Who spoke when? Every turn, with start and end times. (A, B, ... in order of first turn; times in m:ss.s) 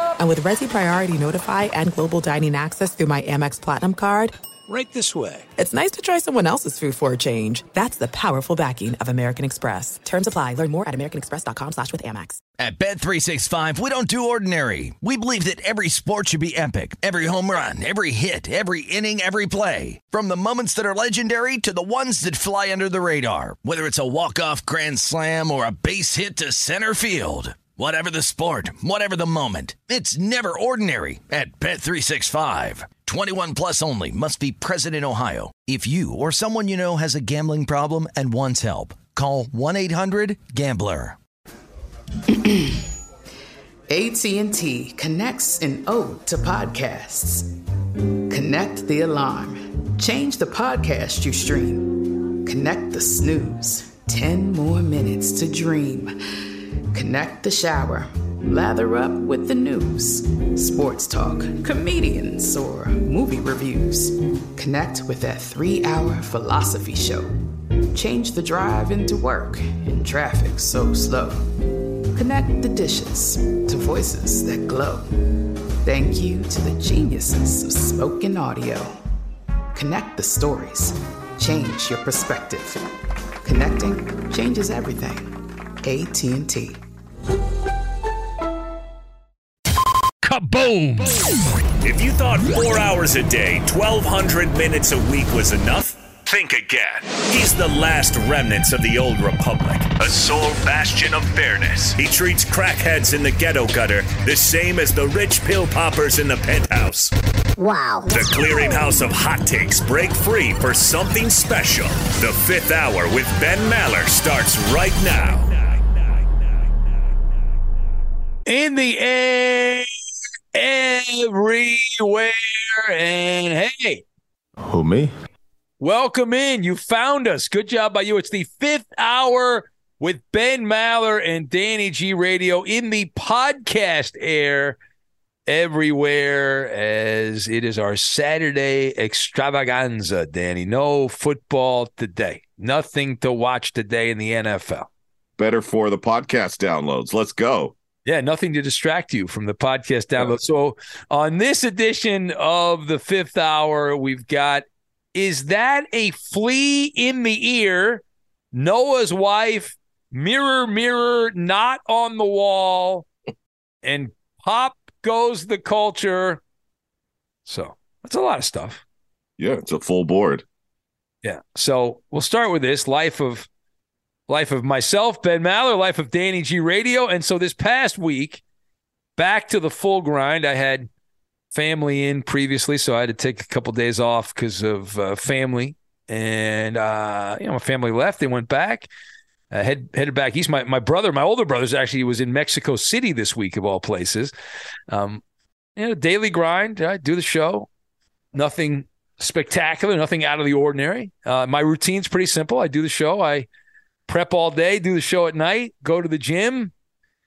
0:00.2-0:04.3 A
0:04.7-0:05.4 B
0:05.6-0:12.4 A
0:12.6-0:41.2 C
0:42.3-0:42.8 D
0:43.9-0:47.5 D
0:48.3-1:07.4 D
1:07.9-1:11.5 D
1:12.1-1:15.1 D
1:15.8-1:19.0 D
1:19.7-1:22.8 D
1:23.4-1:26.8 D
1:30.3-1:31.2 B
1:31.8-1:47.1 B
1:48.1-1:55.5 B
1:58.4-1:59.9 E
2:00.5-2:04.0 E
2:05.8-2:14.8 E
2:15.5-2:24.9 E
2:25.4-2:27.8 F
2:28.0-2:43.1 E
2:43.8-2:46.4 E
2:47.5-2:48.8 E
2:49.4-2:50.4 F
2:51.2-2:53.5 E
2:54.3-2:58.4 E
2:59.2-3:00.9 E
3:01.5-3:08.9 E
3:09.5-3:14.3 E
3:14.9-3:15.2 E
3:15.8-3:17.7 E
3:18.3-3:23.5 E
3:24.1-3:26.7 E